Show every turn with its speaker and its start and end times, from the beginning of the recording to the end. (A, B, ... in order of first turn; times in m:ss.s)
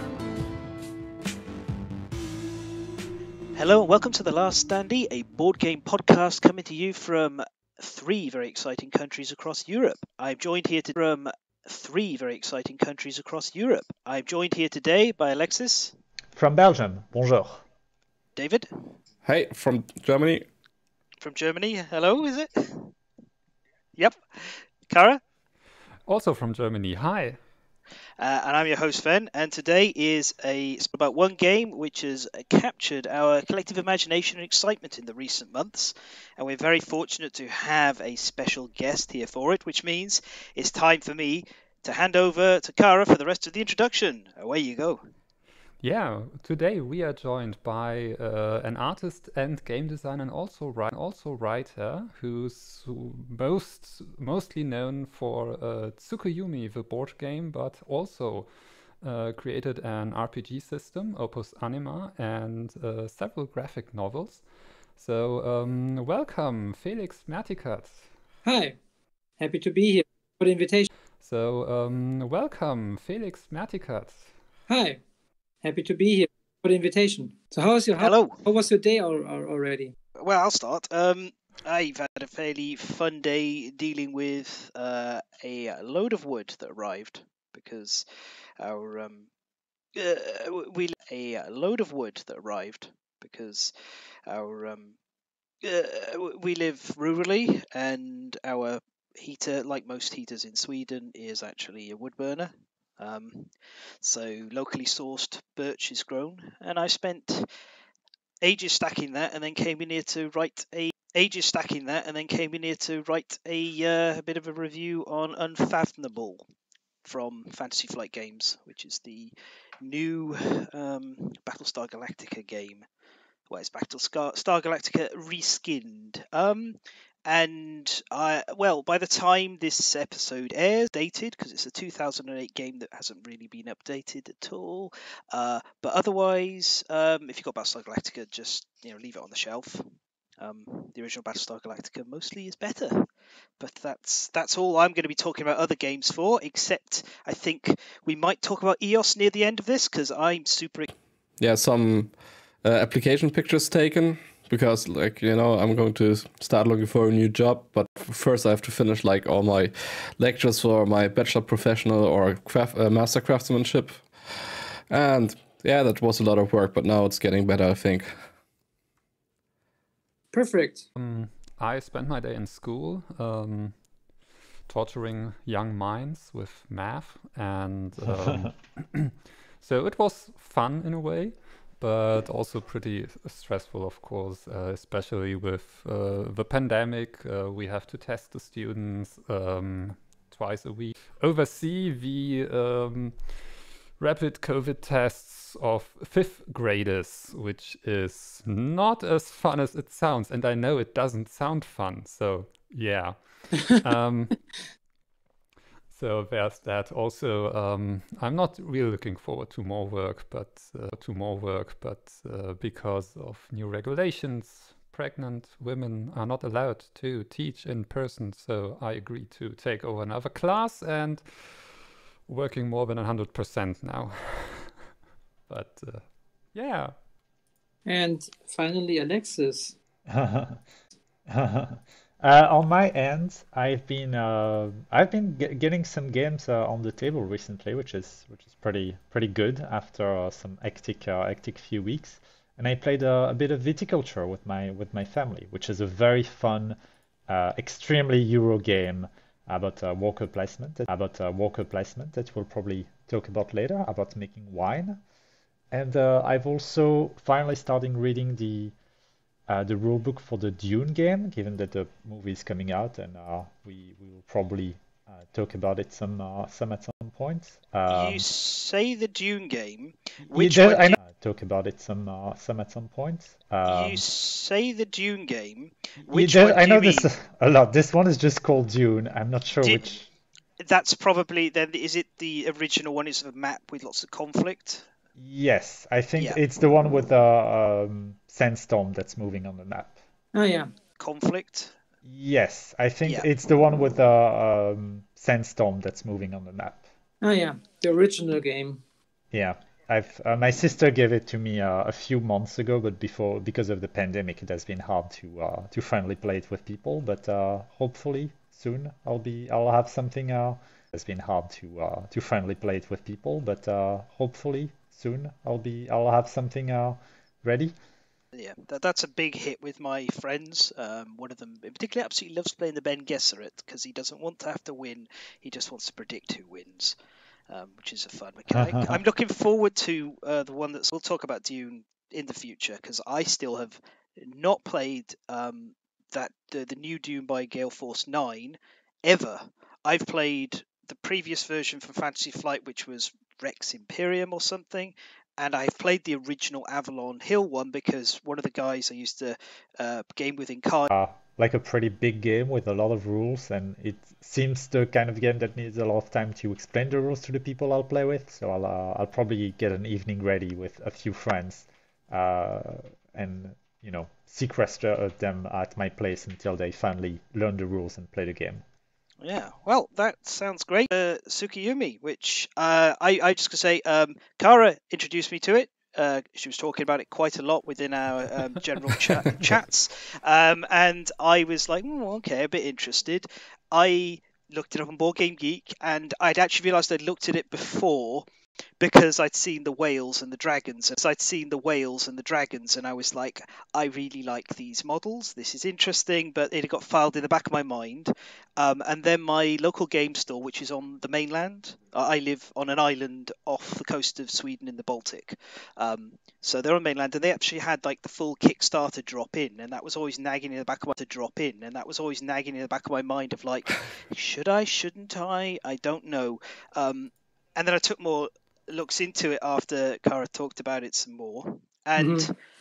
0:03.6-0:16.0 A
0:16.3-0:17.6 B
0:18.4-0:18.7 A
0:19.2-0:20.4 C
0:21.2-0:22.9 A
0:24.0-0:25.2 A
0:26.0-0:27.4 D
0:28.2-0:45.0 A
0:45.8-1:08.1 D
1:08.4-1:08.8 E
1:09.4-1:10.9 E
1:11.2-1:14.3 D
1:14.7-1:15.0 E
1:15.6-1:19.9 E
1:18.0-1:18.4 A
1:20.2-1:28.0 A
1:28.6-1:29.3 A
1:29.9-1:33.7 A
1:34.3-1:35.0 A
1:35.6-1:47.5 A
1:48.4-1:56.4 A
1:57.0-2:02.9 A
2:03.5-2:19.9 A
2:20.4-2:23.1 A
2:23.6-2:30.9 A
2:31.4-2:48.3 C
2:50.3-2:50.8 E
2:51.0-2:53.8 D
2:54.7-3:24.6 D
3:25.9-3:44.9 D
3:45.5-3:46.9 D
3:47.8-3:49.8 E
3:50.1-3:50.6 B
3:51.3-4:06.8 B
4:07.3-4:15.0 B
4:15.7-4:18.7 B
4:19.5-4:28.2 B
4:27.9-4:31.0 A
4:30.3-4:34.0 B
4:33.6-4:37.1 A
4:36.1-4:40.0 B
4:39.6-4:40.0 A
4:40.6-4:44.8 A
4:45.2-4:50.0 B
4:50.3-4:50.7 E
4:51.0-4:51.7 A
4:52.0-4:56.8 B
4:57.2-4:58.8 E
4:59.3-5:17.7 B
5:18.3-5:27.0 A
5:27.5-5:50.9 A
5:28.5-5:29.0 B
5:50.9-6:08.6 B
6:09.2-6:28.2 A
6:28.8-7:02.3 A
7:02.0-7:02.3 E